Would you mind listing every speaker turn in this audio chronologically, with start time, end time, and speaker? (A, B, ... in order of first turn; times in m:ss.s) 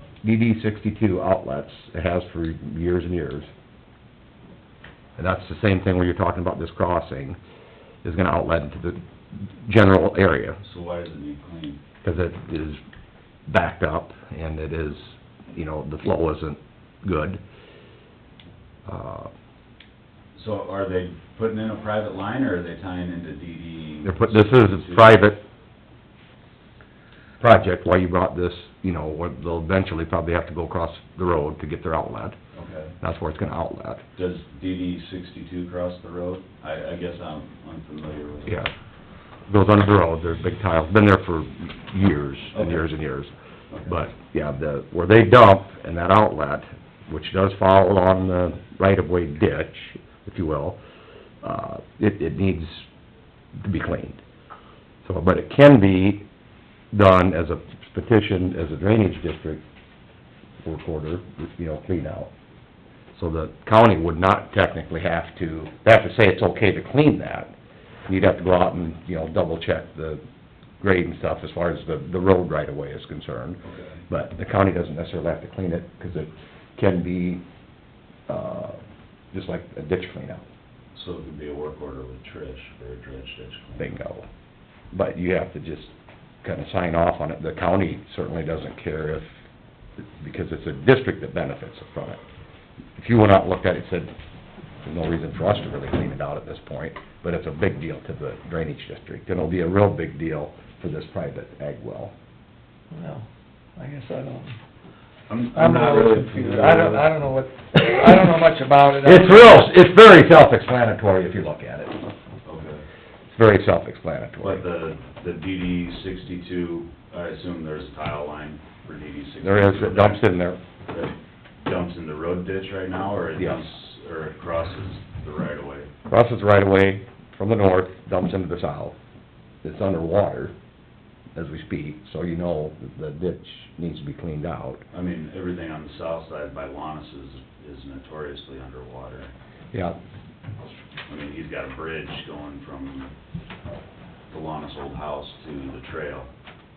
0:00.2-0:03.5 A
0:05.2-0:07.4 A
0:08.0-0:10.6 A
0:10.6-0:11.8 B
0:12.0-0:12.8 A
0:13.5-0:17.4 A
0:18.8-0:19.3 A
0:20.3-0:25.3 B
0:24.0-0:25.4 A
0:27.4-0:32.4 A
0:32.5-0:32.9 B
0:33.0-0:34.0 A
0:34.1-0:38.6 B
0:38.4-0:38.7 A
0:39.5-0:43.3 A
0:42.5-0:42.9 B
0:43.7-0:44.0 B
0:43.9-0:50.8 A
0:51.4-0:52.9 A
0:53.6-0:54.2 A
0:55.0-0:56.2 A
0:56.9-0:59.6 A
1:00.6-1:02.3 A
1:03.1-1:07.5 A
1:08.1-1:10.2 A
1:10.8-1:17.4 A
1:13.6-1:14.0 B
1:18.3-1:18.8 A
1:19.3-1:20.4 A
1:20.9-1:23.9 B
1:23.8-1:24.2 A
1:24.9-1:29.3 A
1:30.0-1:32.2 A
1:33.0-1:34.1 A
1:34.8-1:42.1 A
1:42.9-1:43.2 C
1:43.8-1:44.6 C
1:45.3-1:47.1 B
1:45.5-1:49.7 C
1:49.0-1:52.0 A
1:52.4-1:52.8 B
1:53.3-1:54.6 A
1:54.4-2:00.2 B
1:59.4-2:00.6 A
2:00.9-2:05.9 B
2:03.4-2:03.6 A
2:06.1-2:09.0 A
2:09.6-2:10.5 A
2:11.4-2:14.8 A
2:14.9-2:19.3 B
2:21.1-2:23.1 B
2:24.3-2:26.3 B